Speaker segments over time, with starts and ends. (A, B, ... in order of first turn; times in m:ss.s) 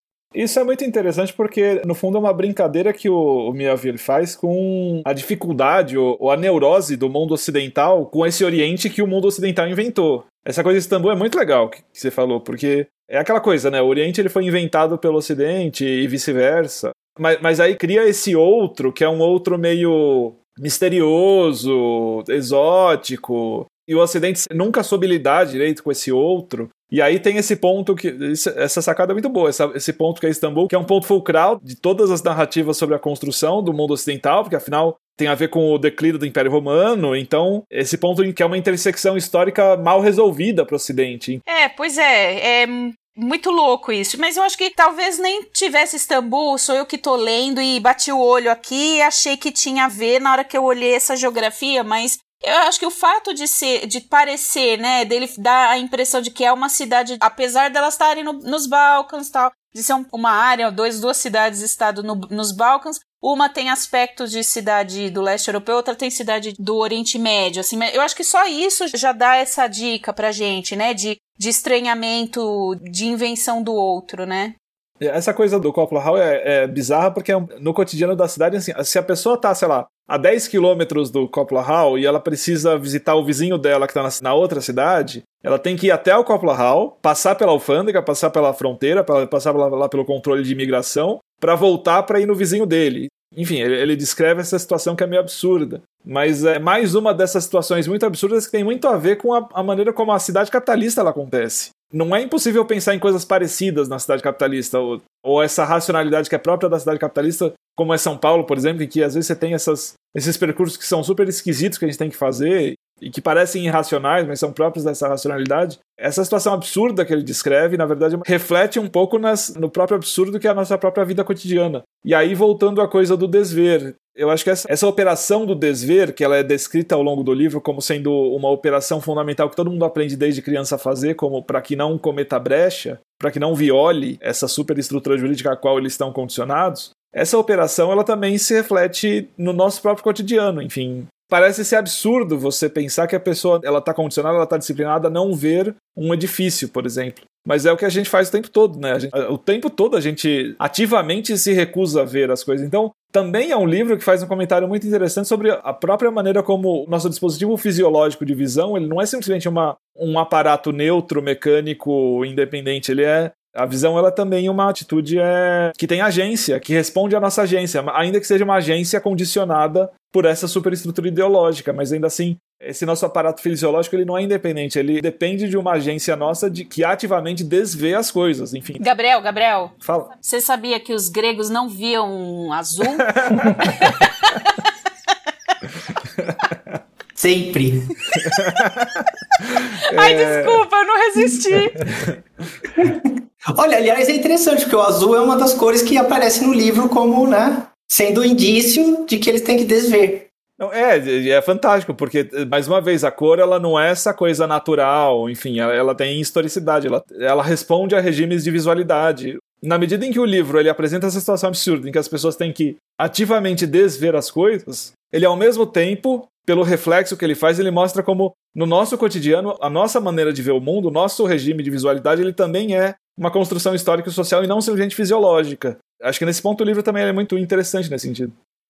0:00.3-0:41.4 A
0:41.5-1:14.5 B
1:15.0-2:58.8 A
2:58.8-3:04.6 B
2:59.8-3:00.1 A
3:03.0-3:03.8 A
3:06.2-3:06.5 A
3:07.1-3:08.0 C
3:08.2-3:10.6 A
3:09.9-3:11.8 B
3:11.8-3:12.1 A
3:12.7-3:20.3 C
3:20.6-3:48.3 A